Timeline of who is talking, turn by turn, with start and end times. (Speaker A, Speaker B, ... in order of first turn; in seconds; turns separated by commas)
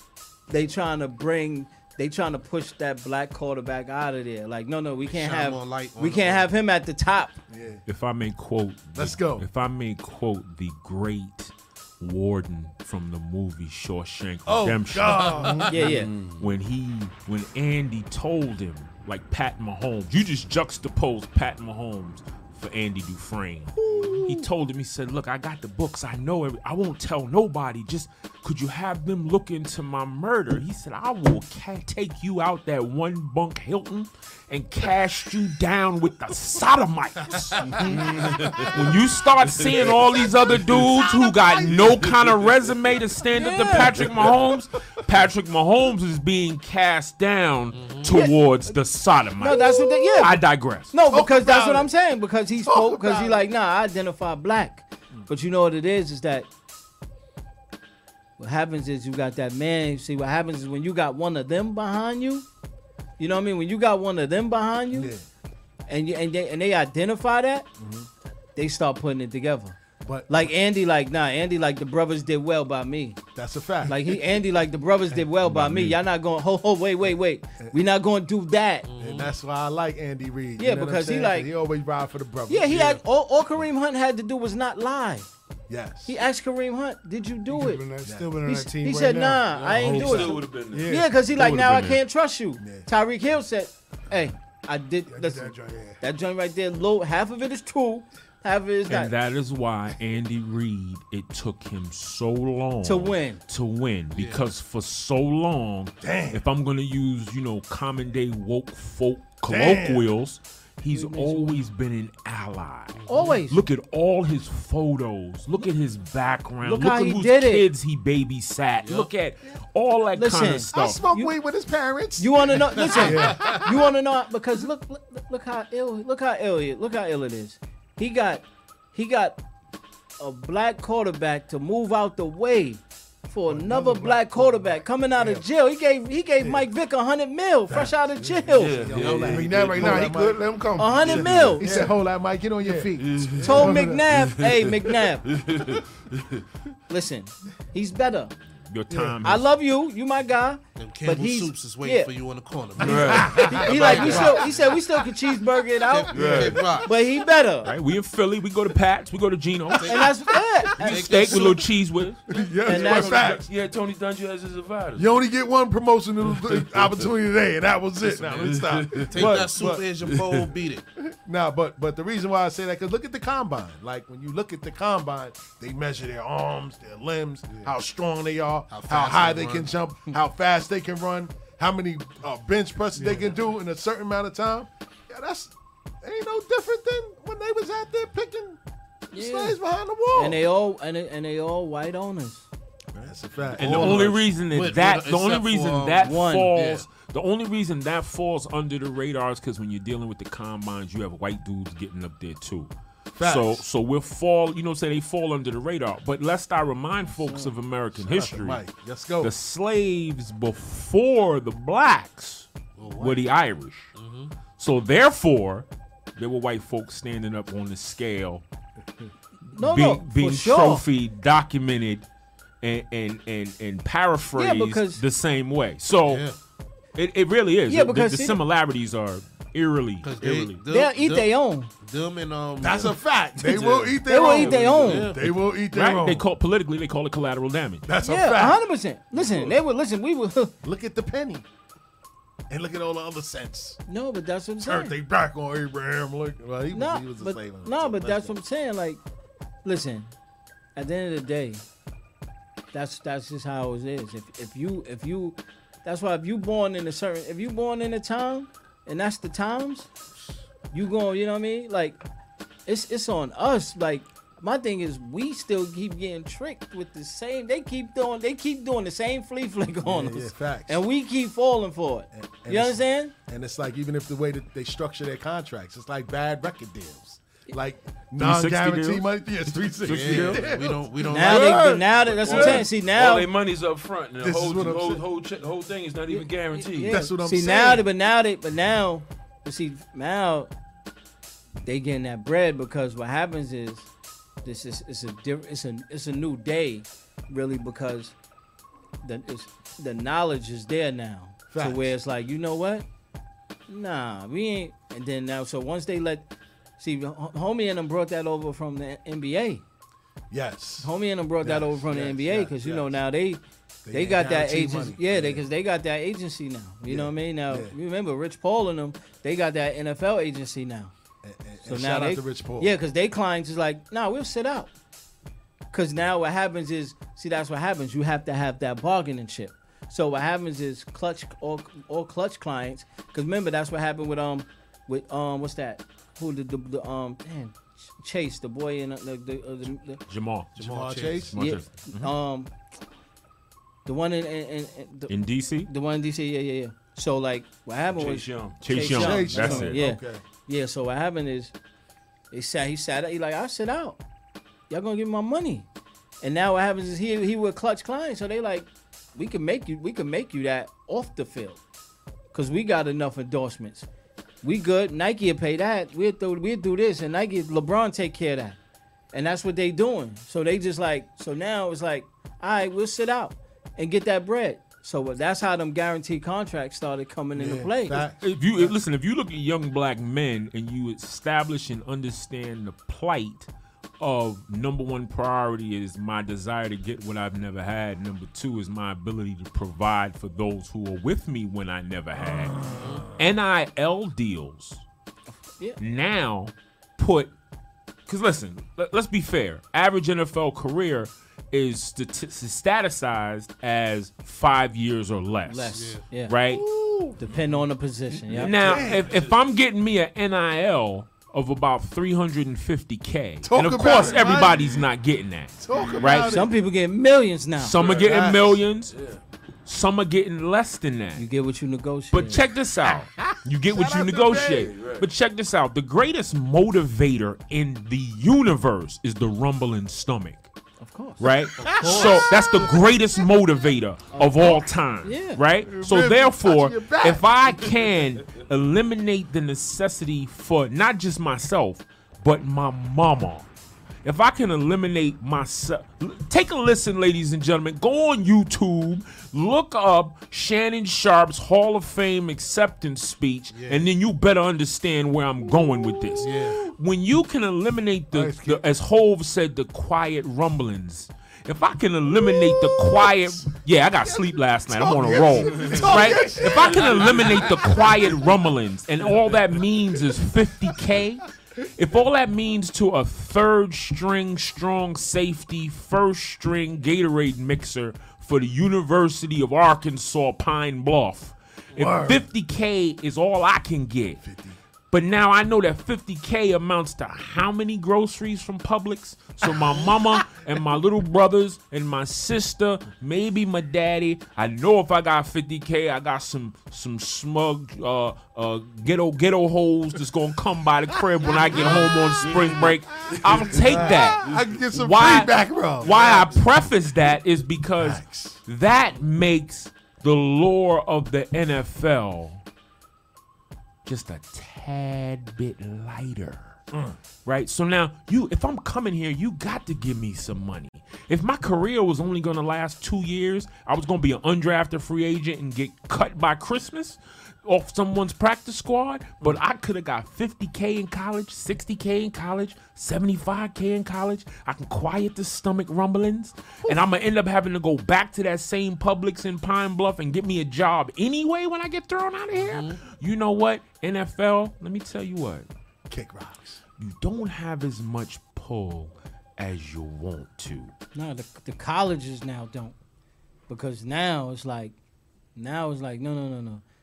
Speaker A: 0.5-7.4, Speaker B: 5.0-6.5, Speaker C: 7.5-7.8, Speaker D: 7.9-15.6, Speaker C: 8.9-9.5, Speaker C: 14.5-15.9, Speaker B: 15.2-15.6, Speaker A: 15.7-16.1, Speaker E: 15.8-16.4, Speaker D: 16.4-50.9, Speaker C: 23.8-24.5, Speaker C: 37.8-38.6, Speaker E: 37.9-38.7, Speaker C: 39.7-42.1, Speaker A: 43.3-44.0, Speaker C: 44.0-44.4, Speaker B: 47.7-48.1, Speaker A: 48.1-48.4, Speaker A: 49.4-56.5, Speaker C: 51.1-51.9, Speaker C: 52.6-53.5, Speaker A: 58.4-62.5, Speaker A: 63.2-65.1, Speaker C: 64.9-65.2, Speaker A: 65.9-67.7, Speaker C: 67.8-68.1, Speaker A: 68.6-69.8, Speaker C: 70.0-70.5, Speaker A: 70.3-73.2, Speaker C: 73.3-74.2, Speaker A: 73.9-78.9, Speaker C: 75.1-76.0, Speaker B: 78.9-79.3, Speaker C: 79.0-83.0, Speaker A: 80.6-81.5, Speaker A: 82.5-85.3, Speaker C: 85.7-86.1, Speaker A: 86.1-87.9, Speaker F: 87.5-89.5, Speaker C: 88.0-88.4, Speaker A: 88.4-99.1, Speaker E: 89.6-91.0, Speaker C: 89.7-90.3, Speaker F: 90.8-91.0, Speaker D: 91.3-92.0, Speaker C: 92.6-92.9, Speaker F: 95.1-96.0, Speaker D: 98.9-121.0, Speaker A: 102.8-103.4, Speaker B: 104.1-104.4, Speaker C: 106.0-106.4, Speaker C: 109.5-110.1, Speaker A: 110.9-111.6, Speaker B: 112.9-113.3, Speaker A: 113.1-113.6, Speaker A: 116.6-117.6, Speaker B: 118.8-119.1, Speaker A: 120.2-121.3, Speaker C: 120.7-123.9, Speaker A: 122.2-129.4, Speaker B: 123.0-123.4, Speaker A: 130.2-139.0, Speaker F: 133.5-134.7, Speaker C: 133.9-134.2, Speaker C: 137.7-140.5, Speaker E: 138.5-140.3, Speaker F: 139.2-142.0, Speaker A: 140.8-141.7, Speaker C: 141.0-144.1, Speaker E: 141.1-141.6, Speaker F: 142.6-142.9, Speaker E: 143.0-146.4, Speaker A: 143.4-145.2, Speaker A: 146.9-148.3, Speaker D: 148.7-149.5, Speaker A: 149.2-152.1, Speaker B: 150.8-154.5, Speaker C: 152.8-154.5, Speaker E: 152.8-154.3, Speaker A: 153.3-157.7, Speaker B: 155.9-156.9, Speaker E: 156.1-156.6, Speaker C: 156.2-156.6, Speaker D: 157.7-160.1, Speaker B: 159.7-160.1, Speaker A: 159.9-161.5, Speaker D: 160.8-162.2, Speaker B: 160.8-161.7, Speaker C: 162.3-163.5, Speaker A: 162.7-163.2, Speaker E: 162.7-165.1, Speaker C: 165.0-169.9, Speaker E: 166.5-166.8, Speaker E: 168.1-169.5, Speaker B: 169.1-170.8, Speaker C: 171.0-188.6, Speaker B: 178.7-179.7, Speaker F: 183.0-183.2, Speaker A: 189.1-189.6, Speaker C: 189.1-190.4, Speaker A: 190.1-192.5, Speaker C: 192.9-194.1, Speaker B: 193.6-196.9, Speaker D: 193.6-208.7, Speaker A: 196.0-196.6, Speaker C: 203.1-203.6, Speaker C: 207.9-209.3, Speaker D: 209.2-213.9, Speaker B: 212.8-213.3, Speaker B: 214.0-214.3, Speaker D: 214.6-218.4, Speaker A: 219.5-220.8, Speaker D: 219.6-222.1, Speaker D: 222.6-226.3, Speaker A: 224.3-225.0, Speaker B: 226.1-226.3, Speaker D: 227.0-230.6, Speaker A: 227.7-228.4, Speaker B: 230.0-235.4, Speaker A: 230.7-231.7, Speaker C: 232.6-236.2, Speaker A: 234.1-235.1, Speaker D: 235.7-237.9, Speaker C: 237.8-238.6, Speaker A: 238.0-240.6, Speaker C: 239.2-239.6, Speaker C: 240.6-241.4, Speaker C: 242.5-243.8, Speaker A: 243.9-244.9, Speaker C: 244.6-248.4, Speaker A: 246.7-249.0, Speaker A: 249.6-250.1, Speaker A: 250.8-251.6, Speaker A: 252.7-259.9, Speaker A: 260.7-262.0, Speaker A: 262.7-273.1, Speaker C: 269.8-270.8, Speaker C: 272.1-282.7, Speaker D: 278.2-280.6, Speaker B: 279.9-281.8, Speaker A: 281.0-283.3, Speaker E: 281.3-287.0, Speaker C: 284.2-285.0, Speaker A: 286.1-290.5, Speaker C: 286.8-287.9, Speaker A: 291.6-293.9, Speaker A: 294.4-298.1, Speaker A: 299.0-302.9, Speaker C: 301.5-301.9, Speaker A: 303.7-306.3, Speaker A: 306.8-309.6, Speaker C: 310.3-310.9, Speaker A: 310.8-320.9, Speaker C: 311.4-312.9, Speaker C: 313.9-315.4, Speaker C: 316.9-317.8, Speaker C: 321.2-322.7, Speaker A: 321.6-324.7, Speaker A: 325.7-340.0, Speaker D: 340.1-340.5, Speaker B: 340.6-341.3, Speaker C: 340.6-341.4, Speaker D: 341.1-342.1, Speaker A: 341.4-342.5, Speaker A: 343.9-345.1, Speaker D: 345.1-345.7, Speaker A: 345.7-351.5, Speaker E: 347.9-348.6, Speaker D: 348.6-349.8, Speaker C: 348.8-350.2, Speaker A: 352.3-354.0, Speaker A: 354.7-355.7, Speaker A: 356.2-361.6, Speaker A: 362.3-363.9, Speaker A: 364.4-368.6, Speaker A: 369.1-378.0, Speaker C: 377.4-378.8, Speaker D: 378.2-383.5, Speaker D: 384.0-394.8, Speaker C: 392.3-392.8, Speaker B: 392.8-393.1, Speaker A: 395.3-395.8, Speaker D: 395.8-397.3, Speaker D: 398.1-406.6, Speaker A: 405.5-406.4, Speaker B: 405.8-406.0, Speaker C: 406.5-407.2, Speaker A: 407.2-408.6, Speaker D: 408.3-416.4, Speaker C: 408.4-409.2, Speaker E: 408.6-409.4, Speaker C: 413.4-414.9, Speaker C: 415.6-416.5, Speaker A: 416.2-417.8, Speaker D: 417.6-418.9, Speaker C: 417.8-418.6, Speaker E: 418.9-419.2, Speaker D: 419.6-421.3, Speaker A: 421.2-422.4, Speaker D: 422.1-430.5, Speaker C: 423.2-424.7, Speaker E: 424.4-425.1, Speaker A: 430.8-431.3, Speaker D: 431.2-443.5, Speaker B: 431.6-432.3, Speaker C: 431.7-432.7, Speaker A: 434.1-435.4, Speaker C: 435.6-437.3, Speaker D: 444.0-484.2, Speaker B: 453.5-453.9, Speaker C: 455.5-456.7, Speaker B: 456.2-456.6, Speaker C: 458.1-458.6, Speaker C: 462.1-468.4, Speaker E: 465.4-467.8, Speaker C: 481.8-482.2, Speaker C: 484.2-484.6, Speaker D: 484.9-512.4, Speaker C: 501.2-502.1, Speaker E: 501.3-504.6, Speaker C: 503.2-506.3, Speaker E: 505.9-506.4, Speaker C: 507.8-508.4, Speaker D: 513.9-516.6, Speaker C: 516.7-517.0, Speaker D: 517.2-545.5, Speaker B: 542.3-542.8, Speaker C: 545.9-546.6, Speaker D: 546.8-550.7, Speaker A: 550.9-552.8, Speaker A: 553.5-554.8, Speaker A: 555.4-556.6